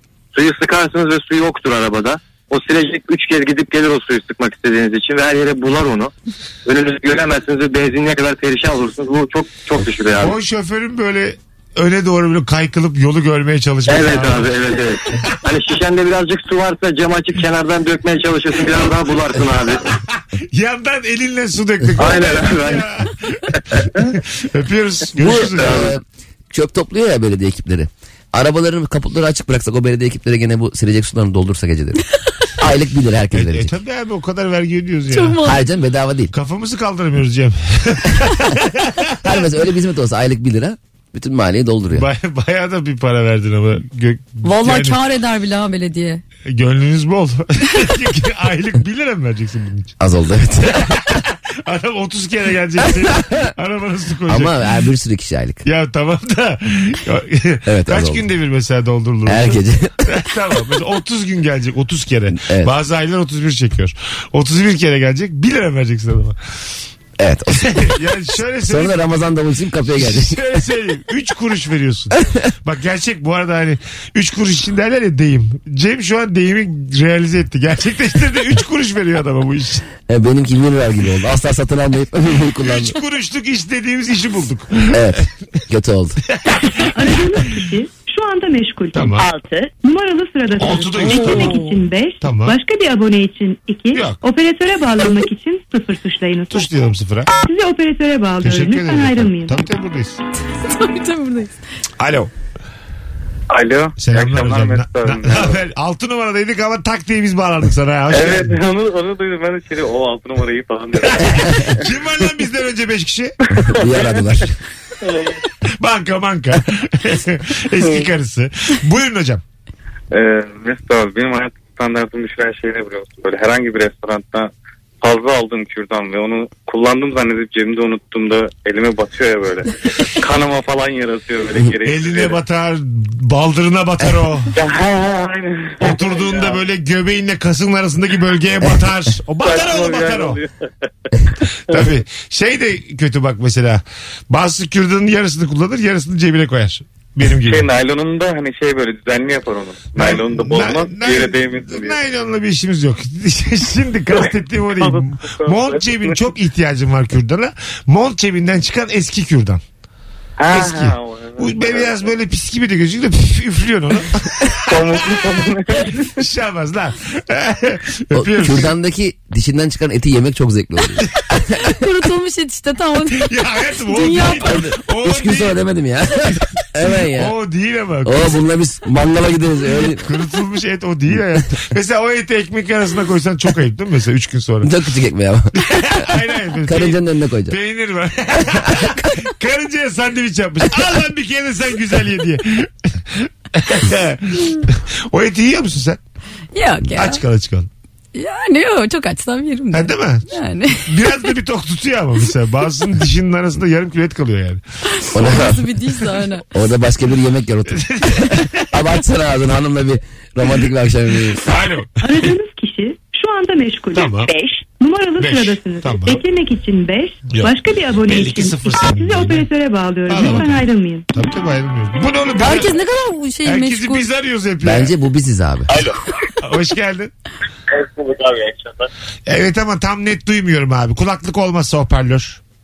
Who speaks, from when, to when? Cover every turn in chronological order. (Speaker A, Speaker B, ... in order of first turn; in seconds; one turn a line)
Speaker A: 0.3-6.1
Speaker A: 6.7-10.4
Speaker B: 10.2-14.5
Speaker A: 13.9-19.9
Speaker B: 19.9-25.9
Speaker A: 22.0-22.7
Speaker C: 25.2-32.0
Speaker C: 32.6-33.7
Speaker B: 33.3-35.4
Speaker D: 35.1-35.6
Speaker C: 35.4-36.3
Speaker B: 36.3-39.2
Speaker C: 39.2-42.1
Speaker B: 41.9-45.0
Speaker D: 44.4-46.2
Speaker B: 46.5-50.0
Speaker C: 50.0-51.1
Speaker B: 50.6-54.5
Speaker C: 54.3-55.6
Speaker B: 55.6-66.4
Speaker C: 57.7-58.2
Speaker C: 59.3-60.0
Speaker C: 62.3-62.7
Speaker C: 67.2-67.9
Speaker B: 67.6-69.0
Speaker C: 68.6-70.4
Speaker B: 69.9-79.9
Speaker C: 80.1-83.0
Speaker B: 82.6-85.3
Speaker C: 84.9-86.2
Speaker B: 86.3-87.4
Speaker E: 87.0-89.2
Speaker B: 88.9-89.3
Speaker E: 89.8-96.7
Speaker B: 90.5-91.7
Speaker B: 92.2-92.6
Speaker B: 93.9-94.2
Speaker B: 96.5-97.3
Speaker E: 97.4-99.6
Speaker B: 98.4-100.2
Speaker D: 100.7-101.5
Speaker B: 102.0-102.3
Speaker F: 103.5-105.6
Speaker B: 104.0-108.6
Speaker F: 108.1-111.8
Speaker B: 111.0-113.4
Speaker C: 113.7-114.5
Speaker F: 113.8-114.3
Speaker F: 115.0-115.4
Speaker B: 115.8-119.4
Speaker F: 117.8-118.1
Speaker F: 120.1-124.5
Speaker F: 125.0-132.4
Speaker B: 131.8-134.5
Speaker F: 134.5-136.6
Speaker B: 135.8-140.4
Speaker F: 139.4-140.5
Speaker B: 141.7-147.7
Speaker F: 147.4-152.0
Speaker B: 149.9-159.6
Speaker F: 154.2-156.2
Speaker F: 160.4-162.1
Speaker B: 160.5-168.7
Speaker F: 164.7-166.1
Speaker C: 168.1-171.1
Speaker D: 171.6-173.3
Speaker B: 173.2-175.6
Speaker D: 173.8-174.6
Speaker C: 174.4-177.3
Speaker B: 177.1-178.4
Speaker C: 178.1-180.1
Speaker B: 180.0-184.7
Speaker C: 184.6-186.1
Speaker B: 185.6-196.0
Speaker C: 186.7-187.6
Speaker C: 188.4-188.9
Speaker D: 196.5-197.2
Speaker B: 196.9-197.7
Speaker D: 198.1-200.9
Speaker B: 199.7-200.3
Speaker B: 200.8-204.6
Speaker D: 205.0-206.4
Speaker C: 205.1-205.6
Speaker C: 206.5-211.4
Speaker B: 207.7-208.7
Speaker B: 211.4-212.3
Speaker E: 212.0-221.1
Speaker B: 213.9-214.3
Speaker B: 215.2-216.2
Speaker B: 217.3-219.5
Speaker B: 220.1-222.8
Speaker D: 222.4-224.1
Speaker B: 223.4-224.9
Speaker C: 224.6-225.7
Speaker B: 226.4-227.1
Speaker B: 229.3-232.4